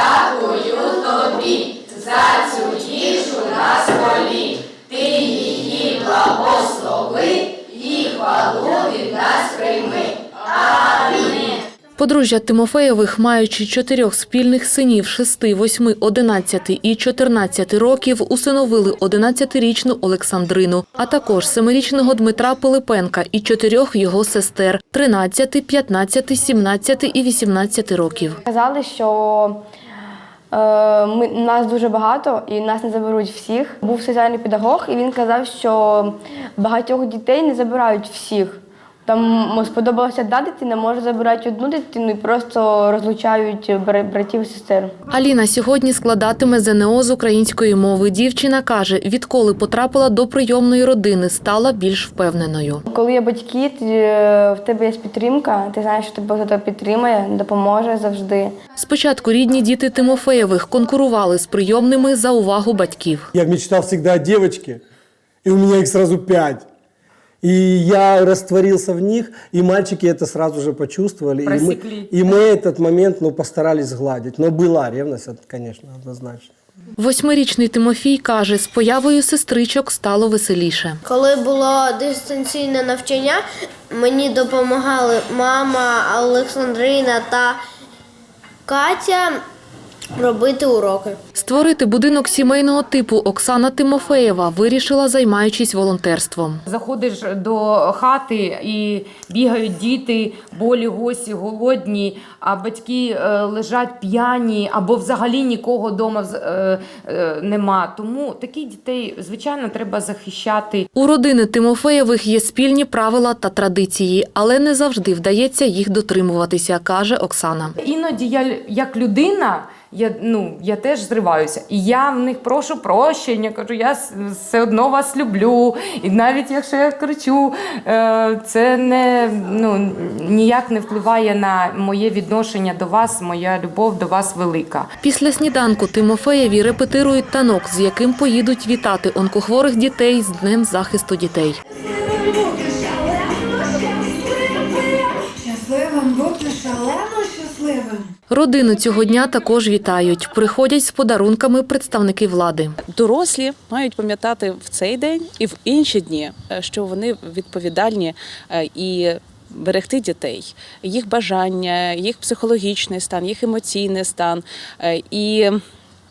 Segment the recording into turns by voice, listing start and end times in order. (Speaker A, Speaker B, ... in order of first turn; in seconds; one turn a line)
Speaker A: 0.3-1.5
Speaker A: 2.1-4.4
Speaker A: 5.0-7.3
Speaker A: 8.1-10.0
Speaker A: 10.8-11.3
Speaker B: 12.0-28.4
Speaker C: 28.5-29.6
Speaker C: 30.5-44.9
Speaker B: 45.1-52.8
Speaker C: 52.9-58.5
Speaker B: 58.8-63.3
Speaker D: 63.3-64.8
Speaker D: 65.4-66.7
Speaker D: 67.4-76.5
Speaker A: 71.4-72.1
Speaker B: 77.0-81.0
Speaker E: 81.0-87.6
Speaker E: 88.7-89.4
Speaker E: 90.2-91.2
Speaker B: 91.3-96.6
Speaker A: 96.7-110.9
Speaker B: 110.9-117.8
Speaker A: 117.8-134.9
Speaker B: 135.0-141.6
Speaker F: 142.1-144.7
Speaker F: 145.4-148.0
Speaker B: 148.3-152.8
Speaker G: 152.9-165.6